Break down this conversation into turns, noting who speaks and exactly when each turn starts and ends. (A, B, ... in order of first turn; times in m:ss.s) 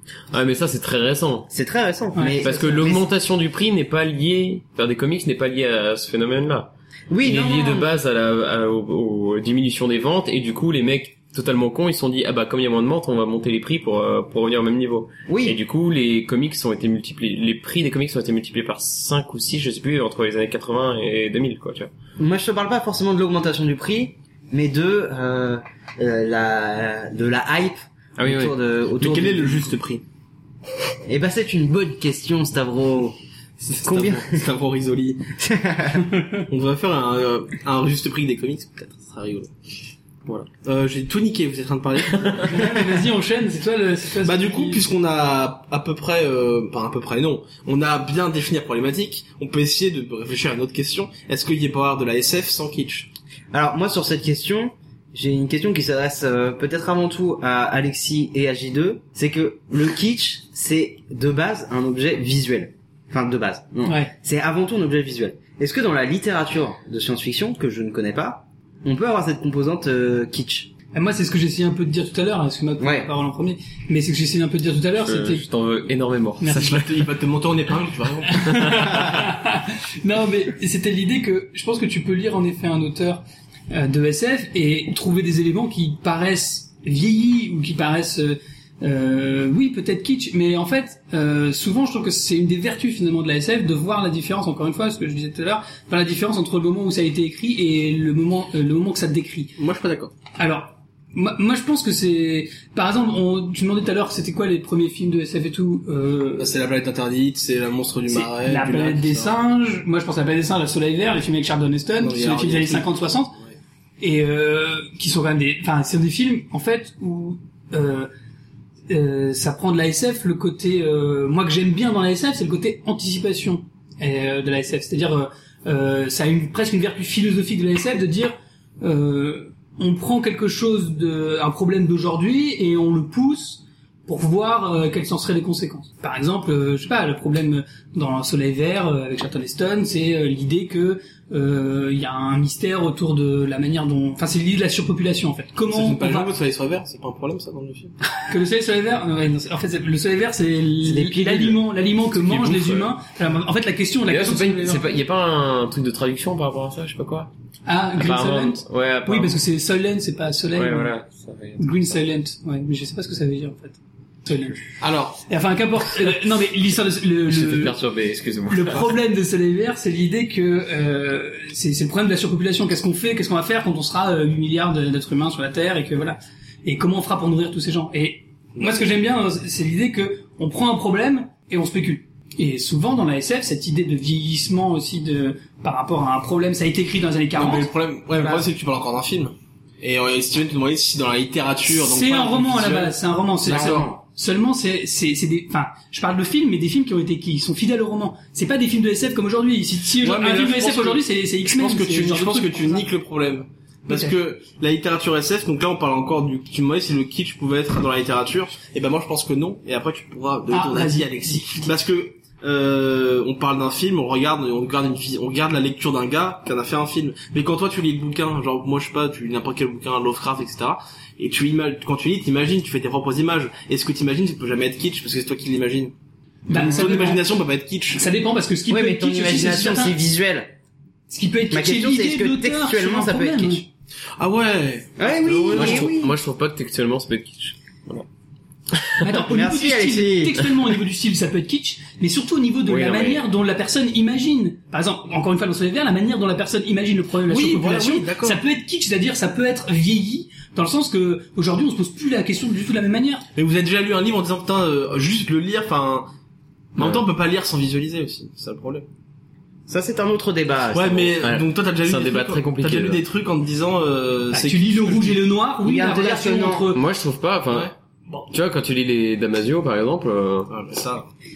0:00.3-0:01.5 A
0:01.5-0:03.1 B
0:02.1-0:02.7 C
0:02.4-0:06.7 A
0:07.1-0:07.9 B
0:07.2-0:21.9 A
0:15.3-0:15.6 B
0:22.2-0:29.7 B
0:28.2-0:28.6 A
0:29.0-0:30.0 D
0:31.1-0:33.2 B
0:33.6-0:35.3 D
0:33.8-0:34.4 B
0:35.4-0:36.1 B
0:36.5-0:39.5 D
0:40.6-0:42.8 D
0:42.4-0:44.8 C
0:44.2-0:53.1 D
0:53.5-1:10.7 B
1:03.8-1:04.1 C
1:10.9-1:15.5 C
1:12.8-1:13.1 B
1:15.0-1:17.1 A
1:16.4-1:16.8 C
1:16.5-1:19.2 D
1:18.3-1:39.6 C
1:39.6-1:40.1 D
1:40.4-1:46.6 C
1:46.4-1:49.3 D
1:48.1-1:53.4 C
1:52.0-1:53.5 D
1:54.0-1:58.1 C
1:58.9-2:26.3 C
2:25.7-2:27.9 D
2:28.2-2:34.9 C
2:30.8-2:31.6 B
2:32.1-2:32.9 A
2:34.1-2:37.3 A
2:37.7-2:40.9 C
2:38.0-2:39.4 A
2:40.6-2:41.8 A
2:41.6-2:44.6 C
2:44.8-2:45.2 D
2:45.3-2:47.8 C
2:47.3-2:48.9 A
2:48.5-3:07.7 C
3:07.4-3:13.0 D
3:11.7-3:22.9 C
3:13.4-3:14.0 B
3:13.5-3:13.8 D
3:20.0-3:46.0 D
3:23.9-3:24.2 C
3:30.5-3:31.7 C
3:46.5-3:47.2 C
3:46.5-3:48.1 D
3:47.9-3:50.0 C
3:48.7-3:50.5 B
3:51.1-3:53.6 C
3:51.5-3:53.7 B
3:54.2-3:55.9 D
3:55.0-3:56.2 B
3:55.5-3:58.1 A
3:58.7-3:59.0 A
3:59.0-4:13.3 C
3:59.1-4:00.4 B
4:02.7-4:03.2 A
4:07.3-4:08.4 D
4:13.4-4:16.1 D
4:16.8-4:18.9 D
4:16.8-4:17.1 A
4:19.7-4:21.2 B
4:20.7-4:25.2 D
4:21.2-4:23.0 A
4:24.3-4:26.8 C
4:25.6-4:26.7 B
4:26.7-4:27.7 A
4:28.3-4:30.5 A
4:30.5-4:31.1 D